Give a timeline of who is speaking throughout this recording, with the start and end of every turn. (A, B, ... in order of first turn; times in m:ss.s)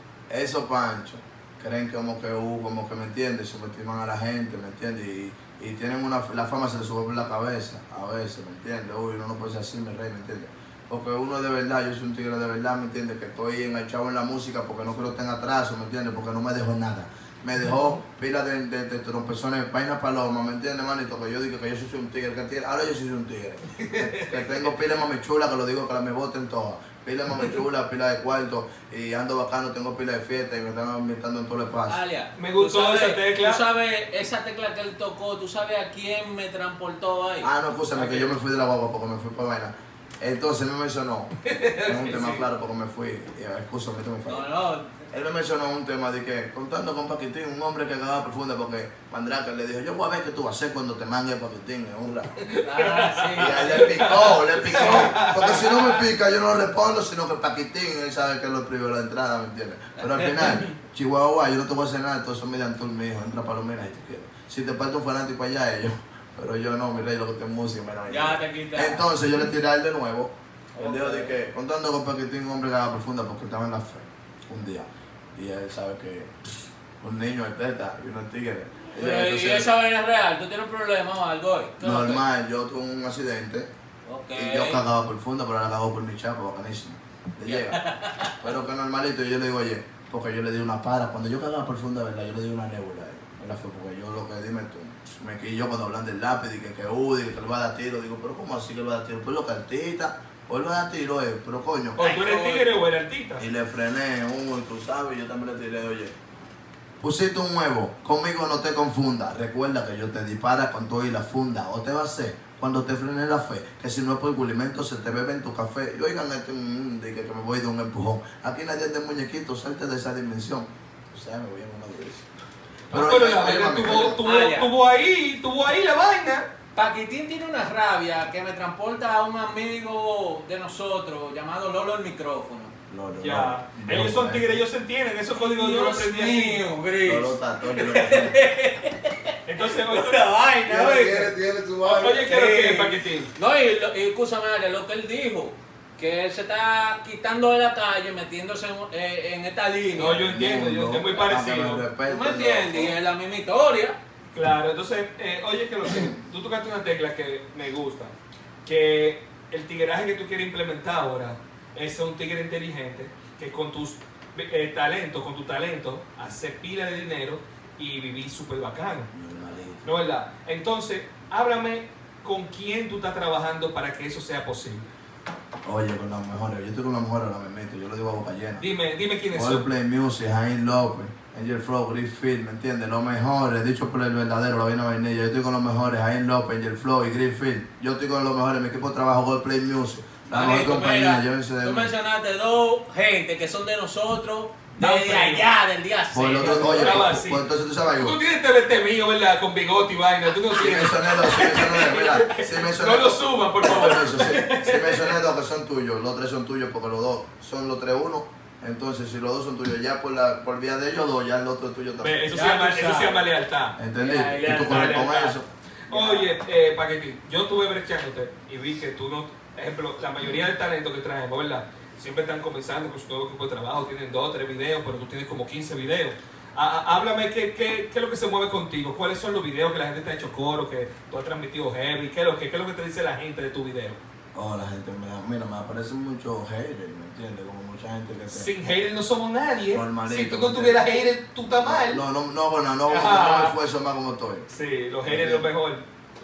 0:00.3-0:32.0 A
0:23.8-0:24.5 B
0:31.9-0:38.3 C
0:32.4-0:33.6 B
0:37.4-0:44.5 A
0:41.4-0:42.4 B
0:44.3-0:45.1 C
0:45.1-0:52.4 A
0:52.4-0:56.0 B
0:52.6-0:55.1 C
0:53.4-1:19.7 A
1:00.0-1:00.4 C
1:00.5-1:00.7 B
1:08.1-1:09.1 C
1:10.8-1:11.4 C
1:19.0-1:22.2 C
1:21.8-1:23.7 A
1:24.1-1:24.8 C
1:24.4-1:27.8 A
1:27.5-1:28.4 C
1:28.4-1:42.0 A
1:42.0-1:43.5 B
1:42.0-1:42.7 C
1:43.4-1:46.2 A
1:47.0-2:02.3 A
2:02.9-2:04.2 A
2:02.9-2:06.5 B
2:04.2-2:04.7 C
2:06.8-2:12.7 C
2:12.9-2:14.6 A
2:13.2-2:16.6 B
2:15.4-2:21.3 C
2:17.0-2:18.4 A
2:19.5-2:20.2 B
2:20.7-2:22.2 A
2:21.8-2:23.3 B
2:22.0-2:30.2 C
2:30.0-2:31.8 B
2:30.0-2:32.9 A
2:32.1-2:34.0 C
2:34.3-2:38.1 B
2:38.7-2:49.1 B
2:49.1-2:49.9 A
2:49.8-2:54.9 B
2:55.6-2:58.6 A
2:58.6-2:59.7 B
2:59.3-3:11.9 A
3:10.3-3:17.0 C
3:14.8-3:15.5 B
3:16.1-3:18.2 A
3:16.4-3:17.4 B
3:18.0-3:25.2 B
3:20.6-3:32.3 A
3:32.0-3:35.4 B
3:32.3-3:33.2 C
3:33.8-3:35.5 A
3:35.9-3:54.0 B
3:35.9-3:36.3 C
3:54.4-3:58.5 A
3:58.3-4:02.0 B
3:59.7-4:00.8 A
4:01.6-4:04.5 A
4:02.9-4:03.6 B
4:04.5-4:05.8 B
4:05.1-4:05.5 A